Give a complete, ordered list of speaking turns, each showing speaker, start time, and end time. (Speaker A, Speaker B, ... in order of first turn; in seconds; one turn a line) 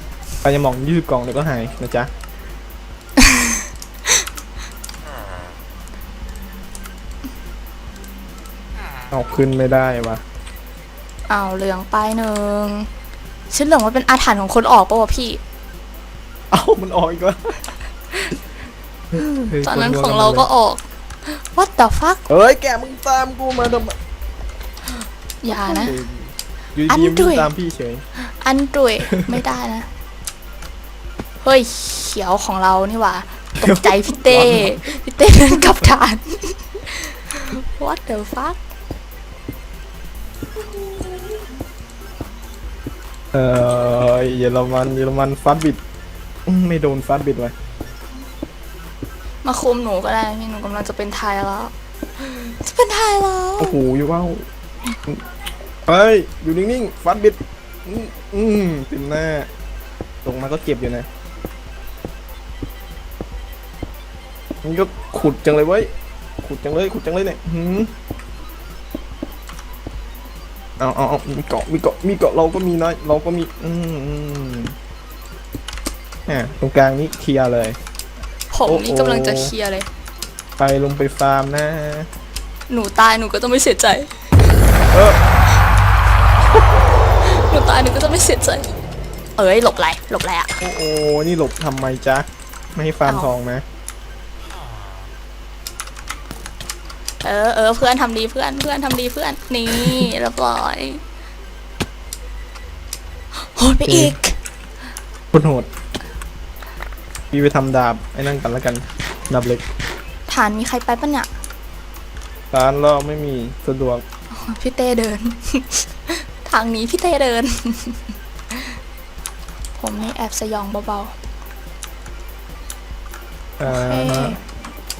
Speaker A: 0.4-2.1
Speaker B: 3.2-3.5
Speaker A: 9.1-10.2
Speaker B: 11.3-12.9
Speaker B: 13.5-15.4
Speaker A: 16.5-17.6
Speaker A: 19.1-20.5
Speaker B: 19.6-22.2
Speaker A: 22.3-23.9
Speaker B: 25.4-25.9
Speaker A: 25.5-28.0
Speaker B: 26.9-27.5
Speaker B: 28.2-29.9
Speaker B: 31.4-38.6
Speaker A: 33.6-34.8
Speaker A: 43.3-45.8
Speaker A: 46.5-47.5
Speaker B: 49.4-53.8
Speaker A: 53.6-54.5
Speaker A: 55.9-59.5
Speaker A: 60.2-61.1
Speaker A: 64.6-65.9
Speaker A: 66.4-67.9
Speaker A: 70.8-74.7
Speaker A: 76.2-77.8
Speaker B: 78.5-79.9
Speaker A: 78.7-79.5
Speaker A: 80.6-82.1
Speaker B: 82.7-84.1
Speaker A: 84.9-85.2
Speaker B: 87.2-88.7
Speaker B: 89.4-90.6
Speaker A: 90.6-93.6
Speaker B: 93.0-93.3
Speaker B: 97.2-101.0
Speaker B: 103.4-104.3
Speaker A: 103.9-104.2
Speaker A: 105.3-105.7
Speaker A: 107.3-109.6
Speaker B: 110.3-111.3
Speaker A: 112.5-114.0
Speaker B: 114.3-118.8
Speaker B: 119.8-121.1
Speaker A: 123.6-124.4
Speaker B: 123.6-124.4